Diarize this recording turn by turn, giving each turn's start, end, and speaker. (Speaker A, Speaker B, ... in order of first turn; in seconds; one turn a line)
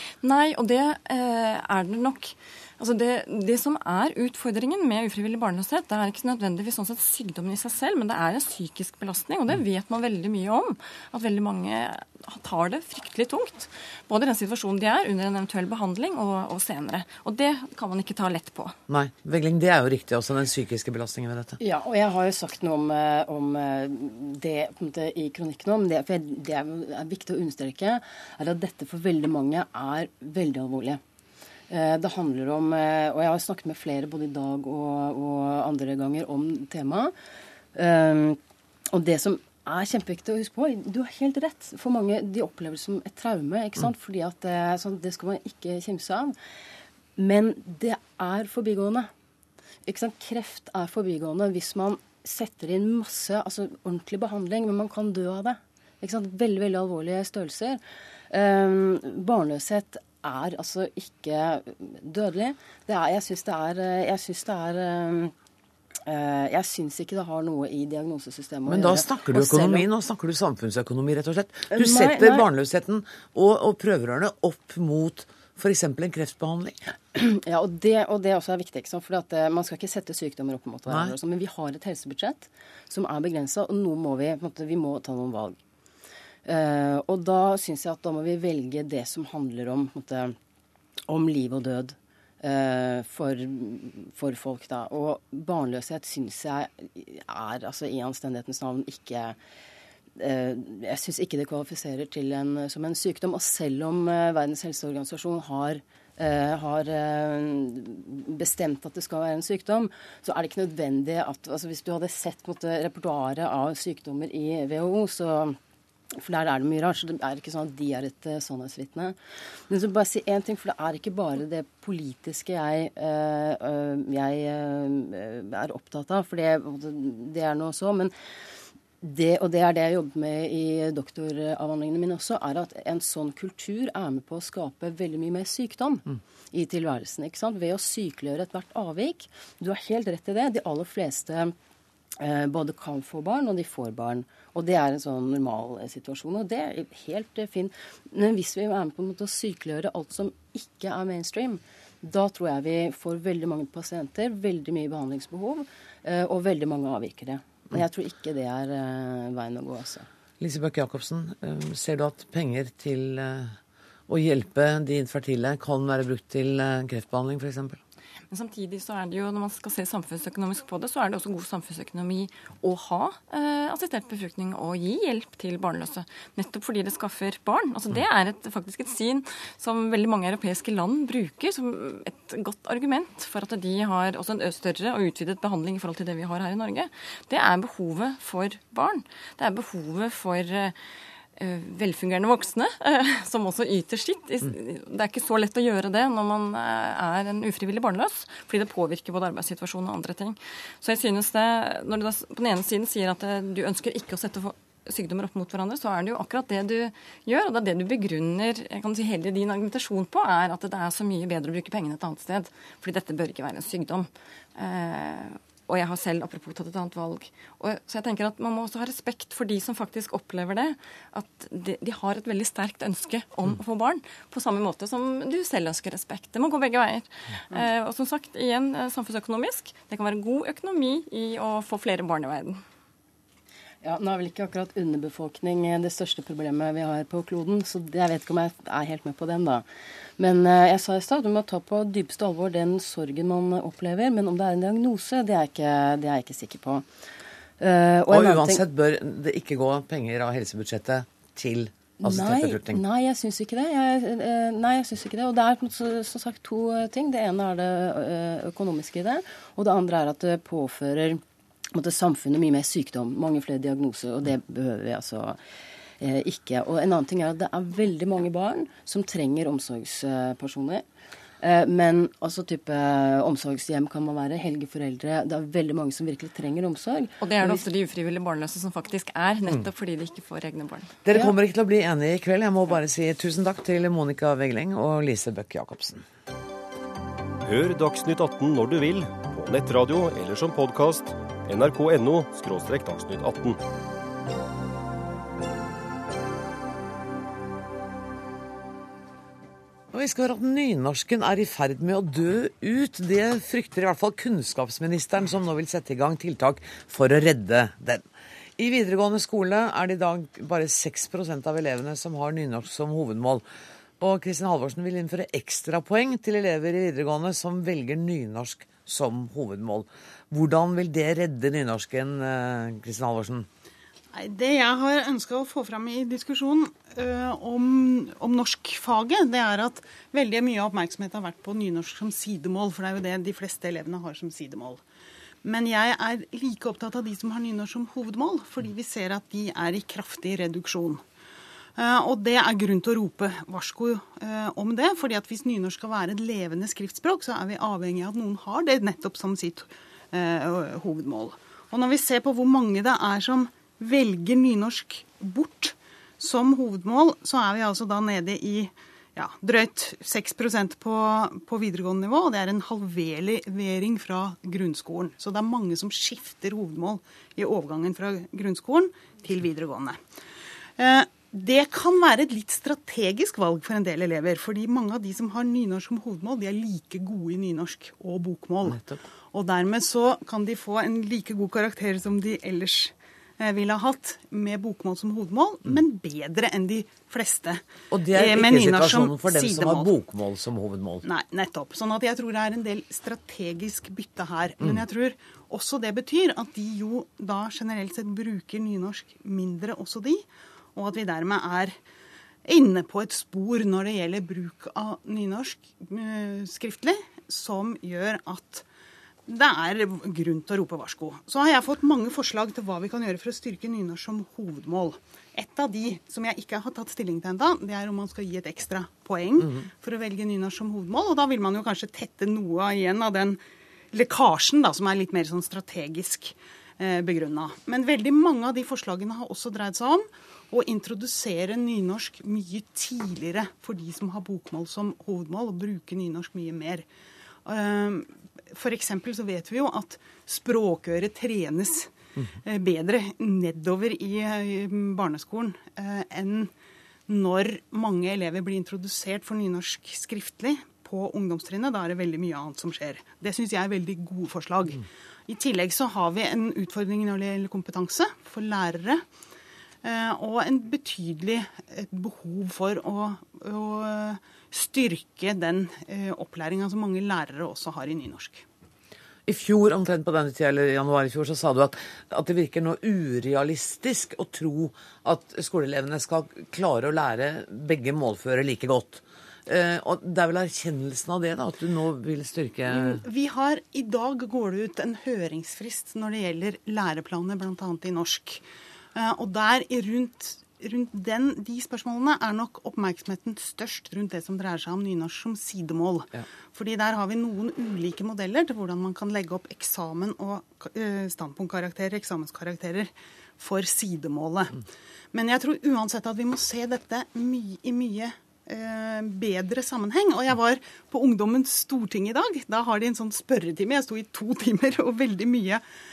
Speaker A: 0.2-18.8
Speaker B: 18.9-21.6
Speaker C: 21.6-31.0
Speaker C: 31.7-37.1
Speaker C: 37.8-38.4
Speaker C: 38.9-46.4
Speaker C: 47.2-49.1
Speaker C: 49.9-65.3
Speaker C: 66.1-69.9
Speaker B: 68.7-76.8
Speaker C: 71.7-72.5
Speaker C: 77.2-85.6
Speaker B: 80.9-81.1
Speaker C: 86.5-90.3
Speaker C: 91.1-99.4
Speaker C: 100.2-115.6
Speaker C: 116.2-119.2
Speaker C: 119.7-128.1
Speaker C: 129.0-141.5
Speaker C: 142.2-160.1
Speaker B: 160.4-163.6
Speaker B: 164.1-167.8
Speaker A: 168.3-190.8
Speaker A: 191.4-232.6
Speaker C: 233.8-239.7
Speaker C: 240.2-246.8
Speaker C: 247.6-248.6
Speaker B: 248.1-252.8
Speaker C: 252.0-261.2
Speaker C: 261.7-265.4
Speaker C: 266.0-270.9
Speaker C: 271.4-277.6
Speaker A: 277.2-280.9
Speaker B: 281.1-286.1
Speaker D: 287.4-293.6
Speaker B: 299.9-308.1
Speaker B: 308.6-313.4
Speaker B: 314.0-323.5
Speaker E: 324.1-334.8
Speaker E: 335.4-341.0
Speaker E: 341.8-370.0
Speaker E: 370.8-378.8
Speaker B: 378.7-379.0
Speaker E: 379.3-389.9
Speaker B: 387.9-391.1
Speaker E: 391.0-400.2
Speaker E: 400.8-401.8
Speaker E: 402.5-408.6
Speaker E: 409.3-423.4
Speaker E: 423.9-436.9
Speaker E: 437.4-441.9
Speaker E: 442.4-446.5
Speaker E: 447.1-459.0
Speaker E: 459.8-468.4
Speaker B: 469.3-483.0
Speaker E: 482.7-488.4
Speaker E: 488.9-504.6
Speaker E: 505.1-515.6